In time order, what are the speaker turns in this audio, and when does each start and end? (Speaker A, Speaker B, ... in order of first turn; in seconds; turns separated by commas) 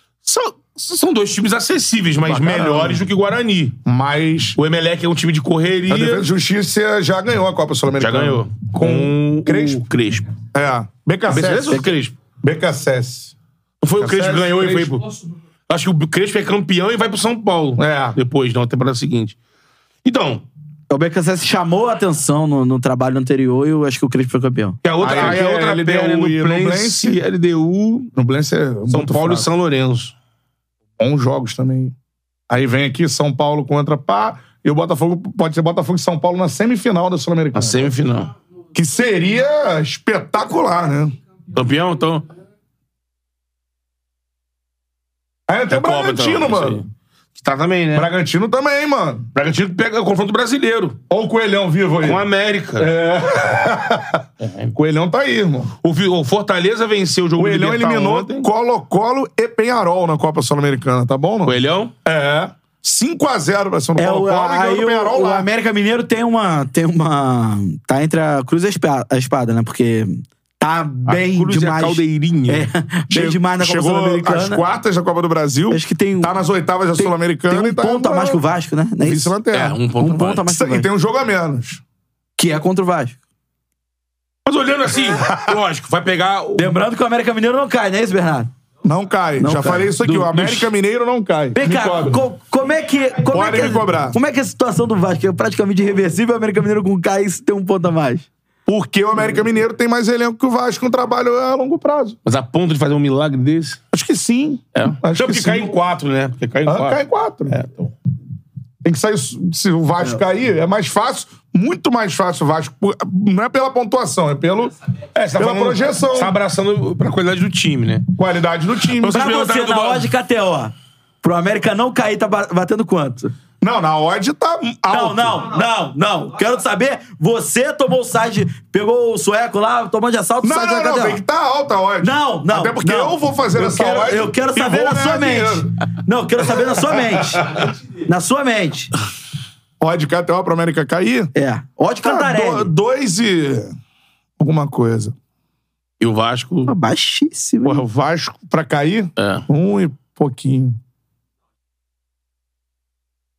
Speaker A: 0.2-3.8, Speaker B: 2.3-3.0, Speaker B: 3.9-4.6, Speaker A: 4.6-6.3, Speaker B: 5.9-9.8, Speaker A: 8.0-10.3, Speaker B: 10.5-13.3, Speaker A: 11.3-12.2, Speaker A: 13.8-15.1, Speaker B: 14.0-14.9, Speaker A: 15.7-19.4, Speaker B: 17.8-18.2, Speaker A: 20.1-20.4, Speaker C: 20.9-24.8, Speaker A: 24.8-28.1, Speaker B: 25.0-27.2, Speaker B: 28.1-29.5, Speaker A: 28.9-30.1, Speaker B: 31.0-31.9, Speaker B: 32.5-37.9, Speaker A: 37.5-38.3, Speaker B: 38.7-41.2, Speaker A: 41.5-42.3, Speaker B: 45.5-46.8, Speaker A: 45.7-48.1, Speaker B: 47.9-49.3, Speaker A: 49.4-51.0, Speaker B: 51.1-52.2, Speaker A: 52.0-52.9, Speaker B: 52.8-55.7, Speaker A: 54.4-54.7, Speaker A: 55.8-58.5, Speaker B: 57.4-65.5, Speaker A: 61.5-61.9, Speaker C: 64.0-74.6, Speaker A: 71.1-72.7, Speaker B: 73.1-78.4, Speaker C: 75.7-76.4, Speaker C: 77.0-79.3, Speaker B: 79.0-79.8, Speaker A: 79.5-80.4, Speaker C: 80.0-80.9, Speaker B: 80.5-81.8, Speaker C: 82.4-83.2, Speaker A: 84.5-86.7, Speaker B: 85.2-85.6, Speaker C: 86.6-88.5, Speaker B: 88.8-92.2, Speaker C: 89.4-90.3, Speaker A: 90.1-90.7, Speaker C: 91.6-98.3, Speaker B: 93.2-94.2, Speaker B: 98.7-102.2, Speaker A: 102.3-103.8, Speaker B: 103.9-105.7, Speaker A: 104.8-107.9, Speaker B: 106.7-107.6, Speaker B: 108.8-114.7, Speaker A: 115.2-118.1, Speaker B: 115.4-116.4, Speaker B: 118.2-119.3, Speaker A: 119.0-120.1, Speaker C: 119.0-123.3, Speaker B: 123.6-125.6, Speaker C: 124.9-131.2, Speaker B: 130.4-135.7, Speaker C: 132.0-138.9, Speaker B: 139.8-141.3, Speaker C: 141.3-142.7, Speaker B: 142.0-143.7, Speaker B: 144.4-145.1, Speaker A: 146.0-146.7, Speaker C: 146.7-147.8, Speaker B: 147.6-150.8, Speaker A: 149.2-149.5